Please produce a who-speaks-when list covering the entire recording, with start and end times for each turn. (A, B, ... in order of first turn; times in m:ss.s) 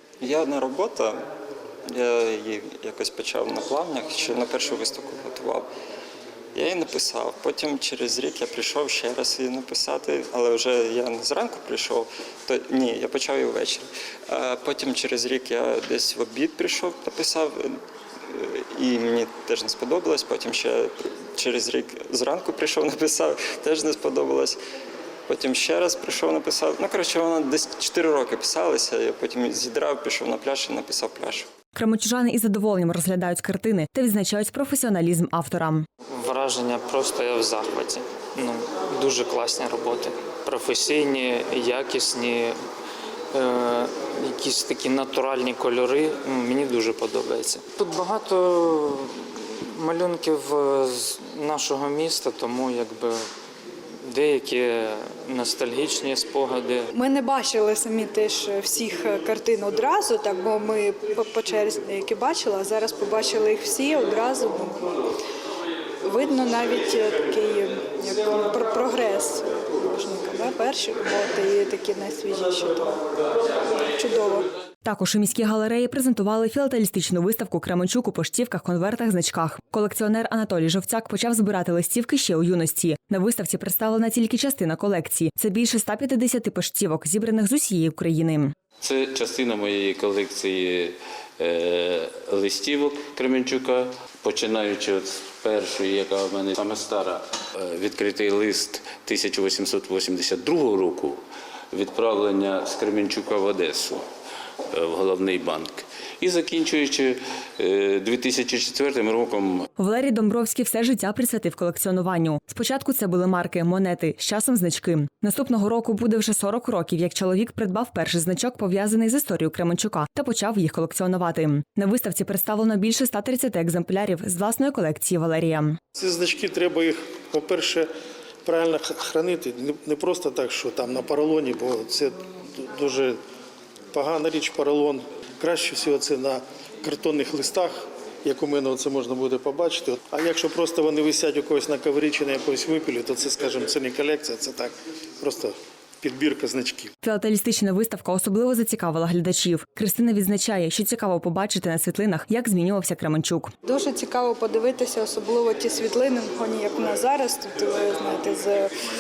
0:00.2-0:01.2 A
0:01.9-0:05.7 A
0:06.6-0:17.8 A
0:18.3-0:24.6 A
0:25.3-0:31.5 A
0:31.8-0:35.9 B
0:36.1-0:42.6 C
0:43.3-0:53.3 C
0:54.0-0:56.9 C
0:56.9-1:05.1 D
1:06.0-1:13.0 D
1:13.9-1:14.5 D
1:14.8-1:28.5 B
1:28.8-1:41.2 E
1:41.7-1:44.0 E
1:44.7-1:49.7 E
1:49.8-2:05.8 B
2:06.0-2:07.9 F
2:08.4-2:13.2 F
2:13.9-2:26.9 F
2:27.0-2:33.5 B
2:33.6-2:38.8 D